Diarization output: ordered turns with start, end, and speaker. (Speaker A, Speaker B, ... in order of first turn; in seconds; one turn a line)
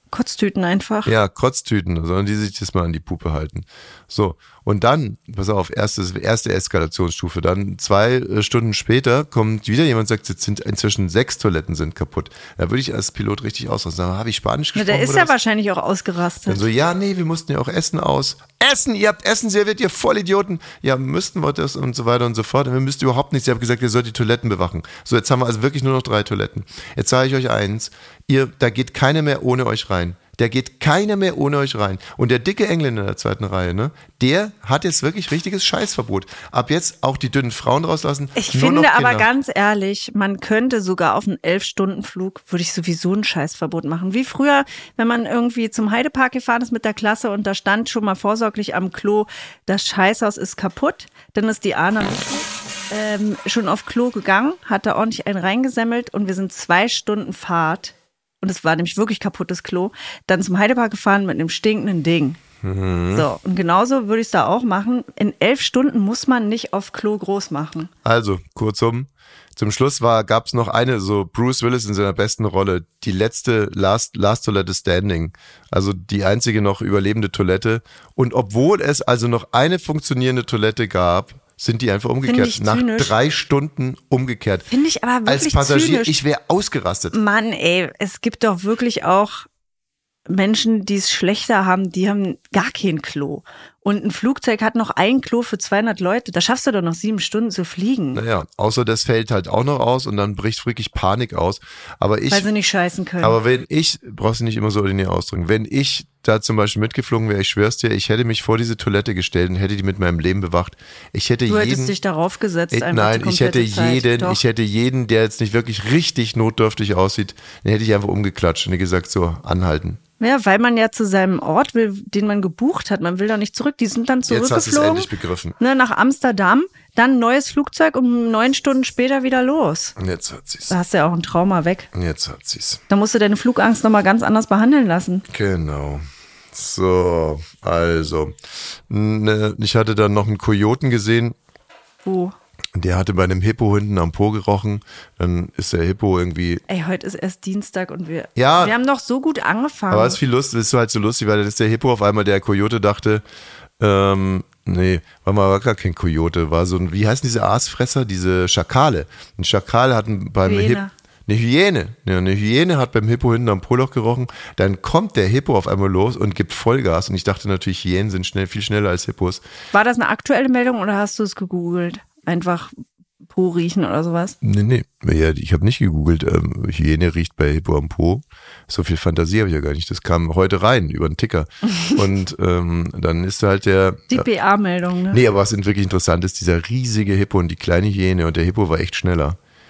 Speaker A: 0.1-1.1
Speaker B: 1.0-15.3
Speaker A: 14.7-16.6
Speaker B: 16.5-39.3
Speaker A: 38.4-62.4
Speaker B: 62.6-63.3
Speaker A: 63.1-67.9
Speaker B: 68.0-84.7
Speaker A: 82.2-83.1
Speaker A: 84.7-86.1
Speaker B: 85.2-87.2
Speaker A: 87.1-89.5
Speaker A: 90.3-98.2
Speaker B: 98.1-102.5
Speaker A: 102.3-103.4
Speaker B: 103.2-112.0
Speaker A: 111.5-114.4
Speaker B: 112.7-120.0
Speaker A: 120.2-129.9
Speaker B: 124.3-125.5
Speaker B: 130.0-130.8
Speaker A: 130.7-131.9
Speaker B: 131.9-132.8
Speaker A: 132.9-135.2
Speaker B: 135.3-138.4
Speaker B: 138.9-141.4
Speaker A: 142.0-142.3
Speaker B: 142.7-146.6
Speaker A: 146.7-150.2
Speaker B: 148.3-148.7
Speaker B: 149.9-153.2
Speaker B: 153.8-169.4
Speaker A: 160.4-160.9
Speaker A: 169.7-174.4
Speaker B: 174.4-184.3
Speaker A: 184.1-185.2
Speaker B: 185.1-189.4